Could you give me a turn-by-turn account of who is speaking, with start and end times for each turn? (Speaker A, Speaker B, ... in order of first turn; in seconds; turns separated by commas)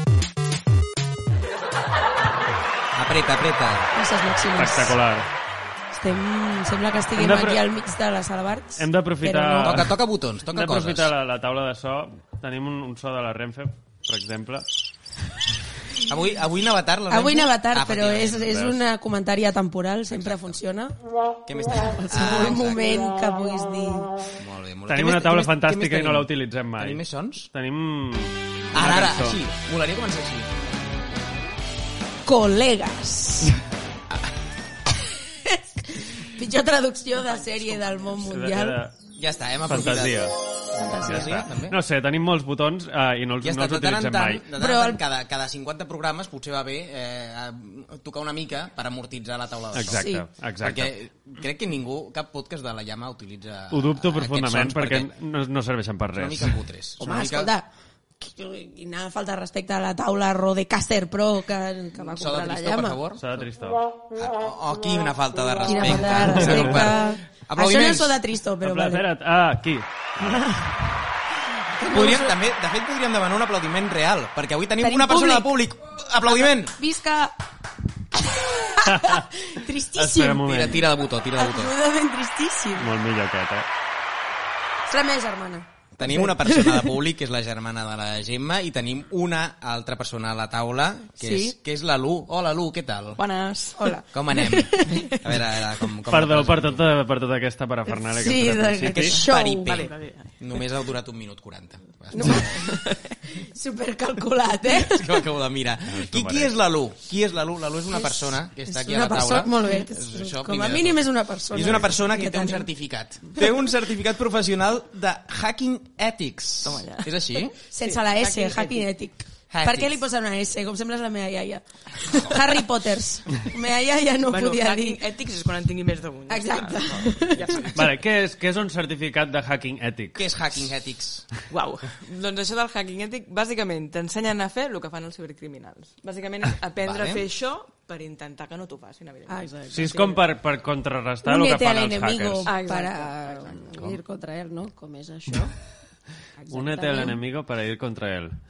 Speaker A: 3.0-3.9, Speaker B: 4.0-5.0, Speaker C: 4.6-5.3, Speaker B: 5.9-9.9, Speaker C: 7.2-7.6, Speaker C: 8.8-9.9, Speaker A: 9.6-11.1, Speaker C: 10.5-14.7, Speaker A: 16.1-18.7, Speaker B: 17.1-21.0, Speaker A: 20.1-20.6, Speaker A: 21.5-23.0, Speaker B: 21.9-24.1, Speaker A: 24.4-27.5, Speaker C: 24.9-29.4, Speaker A: 28.7-30.6, Speaker B: 32.2-33.6, Speaker B: 35.5-38.8, Speaker D: 37.2-38.3, Speaker C: 38.2-39.0, Speaker A: 39.2-41.8, Speaker C: 39.7-40.4, Speaker B: 40.8-41.4, Speaker C: 41.0-44.5, Speaker A: 43.4-50.1, Speaker B: 44.6-45.0, Speaker C: 49.7-50.9, Speaker B: 50.0-50.2, Speaker A: 50.6-55.1, Speaker C: 53.7-56.6, Speaker A: 56.2-57.5, Speaker B: 57.0-57.7, Speaker B: 58.2-63.0, Speaker A: 62.0-63.2, Speaker C: 63.2-63.9, Speaker A: 64.2-68.2, Speaker B: 65.7-69.0, Speaker C: 66.2-66.9, Speaker C: 68.6-70.5, Speaker B: 70.2-70.7, Speaker B: 71.7-72.4, Speaker A: 71.8-76.8, Speaker B: 74.8-75.5, Speaker B: 76.3-77.4, Speaker B: 78.1-80.6, Speaker C: 78.9-79.2, Speaker C: 79.9-80.8, Speaker A: 80.4-81.7, Speaker B: 81.4-82.9, Speaker C: 82.8-83.7, Speaker B: 84.9-86.9, Speaker A: 86.0-93.2, Speaker B: 91.2-91.5, Speaker D: 93.2-94.0, Speaker B: 93.8-95.1, Speaker A: 94.1-96.8, Speaker C: 96.1-99.2, Speaker B: 97.9-99.9, Speaker A: 98.9-102.8, Speaker D: 99.7-100.4, Speaker B: 102.2-105.2, Speaker D: 102.2-103.2, Speaker A: 104.7-117.5, Speaker C: 105.9-106.5, Speaker B: 107.9-112.7, Speaker D: 116.6-118.9, Speaker B: 117.7-125.0, Speaker A: 119.5-120.0, Speaker A: 122.1-122.4, Speaker D: 124.3-127.8, Speaker B: 126.3-127.8, Speaker A: 127.4-127.7, Speaker C: 127.8-130.3, Speaker A: 130.2-131.3, Speaker D: 131.5-140.2, Speaker A: 136.8-137.2, Speaker B: 139.3-140.1, Speaker C: 139.7-142.5, Speaker B: 141.2-145.5, Speaker D: 142.4-143.8, Speaker B: 146.4-147.2, Speaker C: 146.5-148.3